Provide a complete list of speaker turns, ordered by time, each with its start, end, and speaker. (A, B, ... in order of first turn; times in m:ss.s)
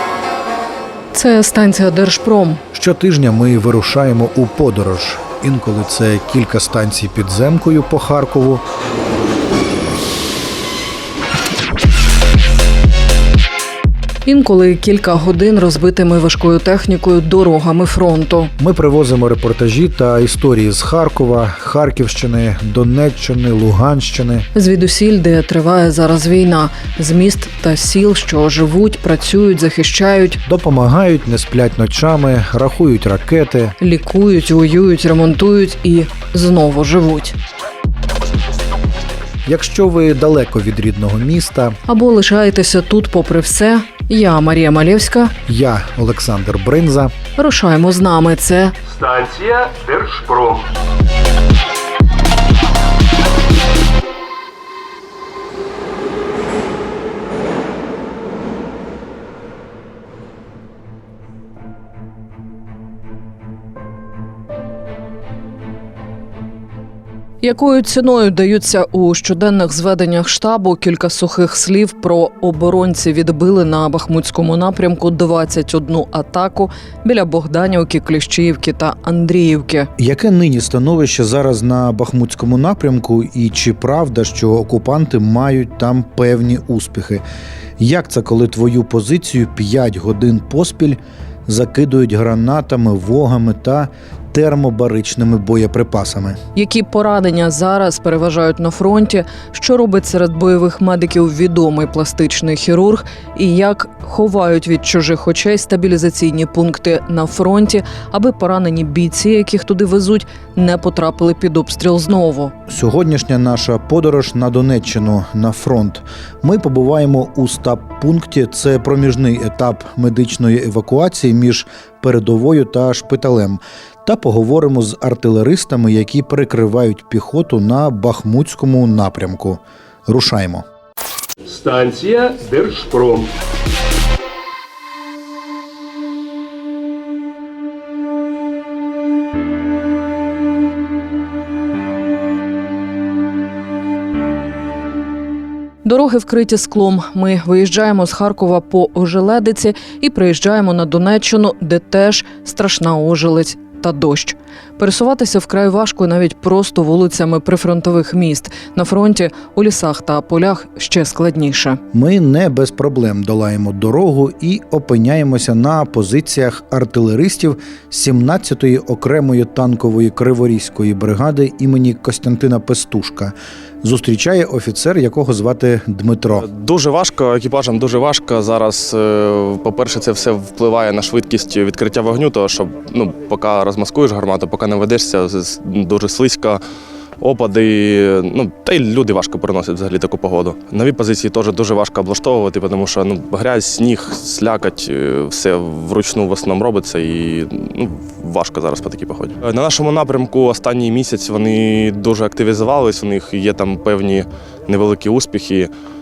0:01.1-0:02.6 A
0:02.7-0:08.6 B
0:14.2-0:18.5 A
0:18.6-0:24.5 B
0:24.5-0:30.4 A
0:30.5-0:33.7 B
0:33.8-0:37.4 A
0:39.5-0:41.8 B
0:41.9-0:45.3 A
0:45.5-0:47.1 B
0:47.4-0:48.8 A
0:48.9-0:50.7 C
1:07.4-1:19.9 A
1:20.0-1:27.2 B
1:27.8-1:36.4 B
1:36.6-1:52.5 A
1:52.7-2:10.6 B
2:11.4-2:13.4 C
2:25.8-2:41.8 A
2:41.9-2:56.5 B
2:56.4-3:06.6 D
3:07.2-3:25.7 D